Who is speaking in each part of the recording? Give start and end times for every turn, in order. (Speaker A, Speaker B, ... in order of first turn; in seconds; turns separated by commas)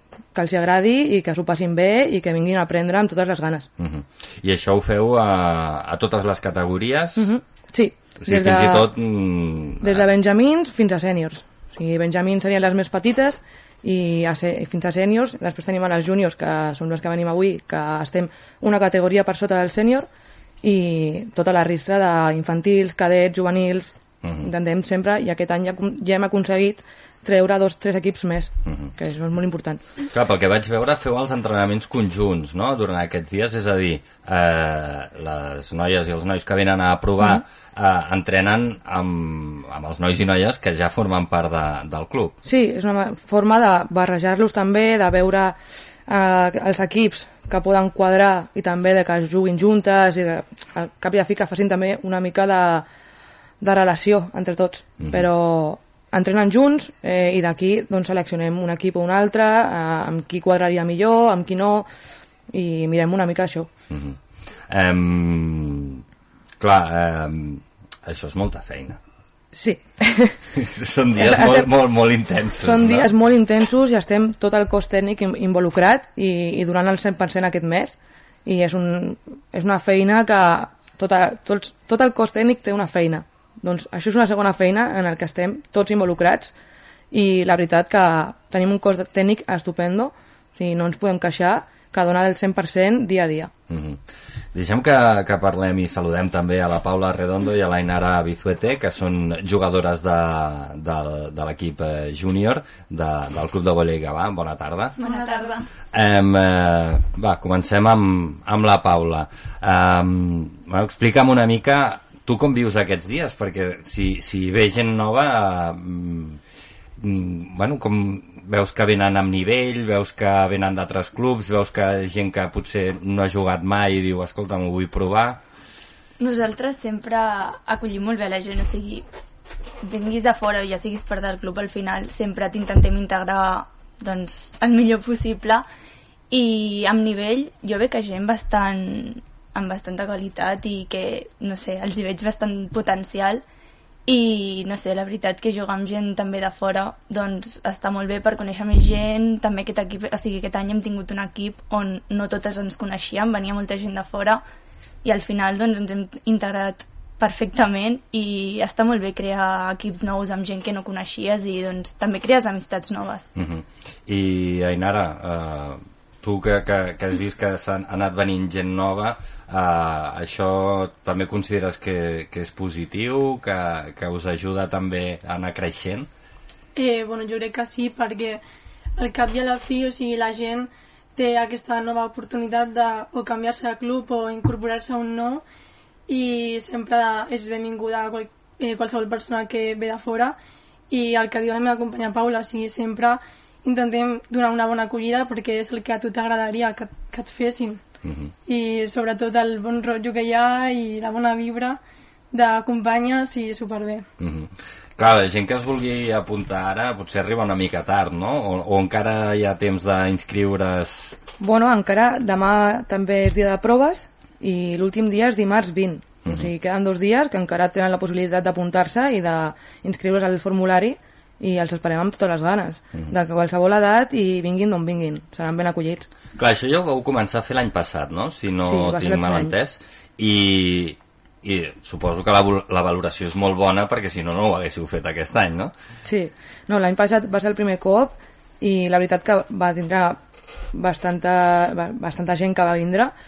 Speaker A: 0.3-3.7, Speaker B: 3.8-7.3, Speaker A: 7.2-8.9, Speaker B: 8.2-10.0, Speaker A: 9.8-20.1, Speaker A: 20.6-29.8, Speaker B: 24.2-24.5, Speaker B: 30.1-42.3, Speaker A: 42.4-52.9, Speaker A: 53.6-61.9, Speaker B: 55.0-55.3, Speaker A: 62.5-63.7, Speaker B: 63.9-66.0, Speaker B: 66.6-69.0, Speaker A: 69.5-70.4, Speaker B: 70.5-73.1, Speaker A: 71.2-71.7, Speaker A: 72.6-86.5, Speaker A: 87.1-93.5, Speaker B: 93.7-94.0, Speaker B: 94.5-104.9, Speaker C: 105.0-105.7, Speaker D: 105.0-105.6, Speaker B: 105.9-116.4, Speaker B: 117.0-125.4, Speaker C: 126.2-129.1, Speaker C: 129.8-135.7, Speaker C: 136.3-143.4, Speaker C: 144.1-154.4, Speaker C: 155.0-163.3, Speaker B: 163.3-176.1, Speaker D: 176.7-178.4, Speaker D: 179.0-185.4, Speaker D: 186.1-190.4, Speaker D: 190.9-197.8, Speaker B: 198.0-198.3, Speaker D: 198.4-201.8, Speaker D: 202.3-204.0, Speaker B: 204.2-211.2, Speaker A: 211.4-226.1, Speaker B: 226.4-235.7, Speaker A: 228.6-229.5, Speaker A: 236.0-240.2, Speaker A: 240.7-243.1